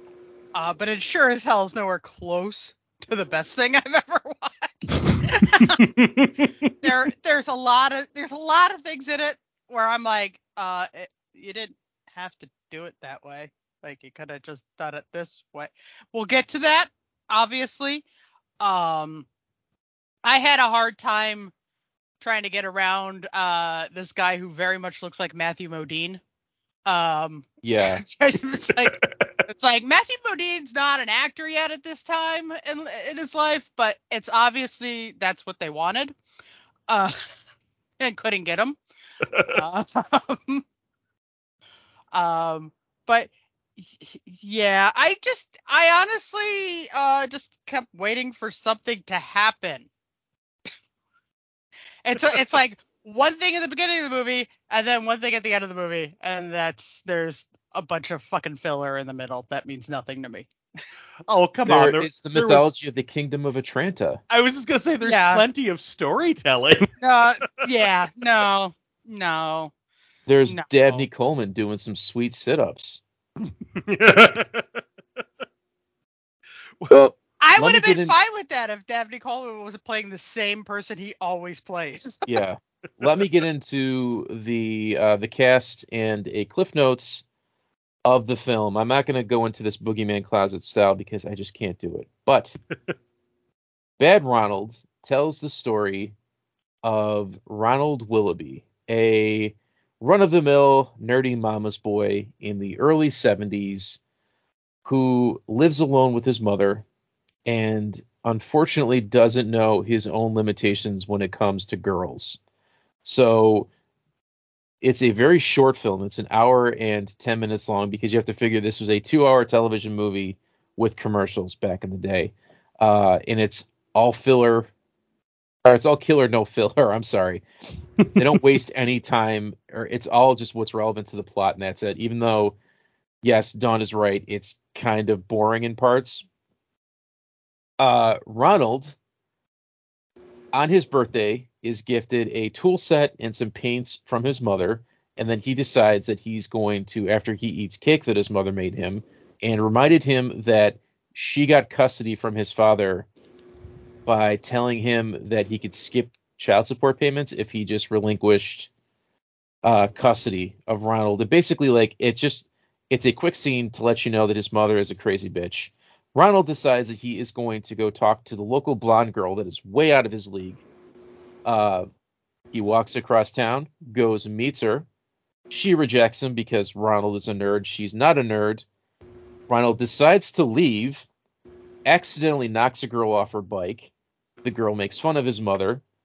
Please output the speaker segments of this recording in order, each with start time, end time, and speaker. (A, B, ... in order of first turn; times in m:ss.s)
0:00.5-0:05.9 A
0:05.8-0:06.7 B
0:06.8-0:18.0 A
0:18.6-0:19.2 A
0:20.2-0:21.5 A
0:22.2-0:26.2 A
0:26.8-0:36.1 A
0:27.6-0:28.0 C
0:36.9-0:37.4 A
0:38.0-0:38.8 A
0:39.3-0:39.6 B
0:39.4-0:40.6 A
0:42.1-0:49.9 A
0:52.0-1:00.5 A
1:01.3-1:02.7 B
1:01.7-1:04.2 C
1:04.3-1:06.9 B
1:05.0-1:05.4 A
1:07.0-1:09.7 A
1:10.3-1:13.0 C
1:13.8-1:14.7 B
1:16.9-1:18.1 C
1:17.4-1:22.2 A
1:22.2-1:27.2 C
1:28.0-1:32.5 C
1:34.0-1:36.1 C
1:36.8-1:44.0 C
1:44.8-1:46.8 C
1:47.4-1:52.4 C
1:53.0-1:53.7 C
1:54.8-2:04.7 C
2:05.6-2:07.4 C
2:08.1-2:12.5 C
2:13.2-2:16.2 C
2:17.8-2:19.0 C
2:20.5-2:33.1 C
2:34.0-2:38.7 C
2:39.6-2:50.6 C
2:51.4-2:51.9 C
2:52.5-2:54.8 C
2:55.5-2:58.6 C
2:59.5-3:01.1 C
3:01.8-3:03.9 C
3:04.4-3:05.8 C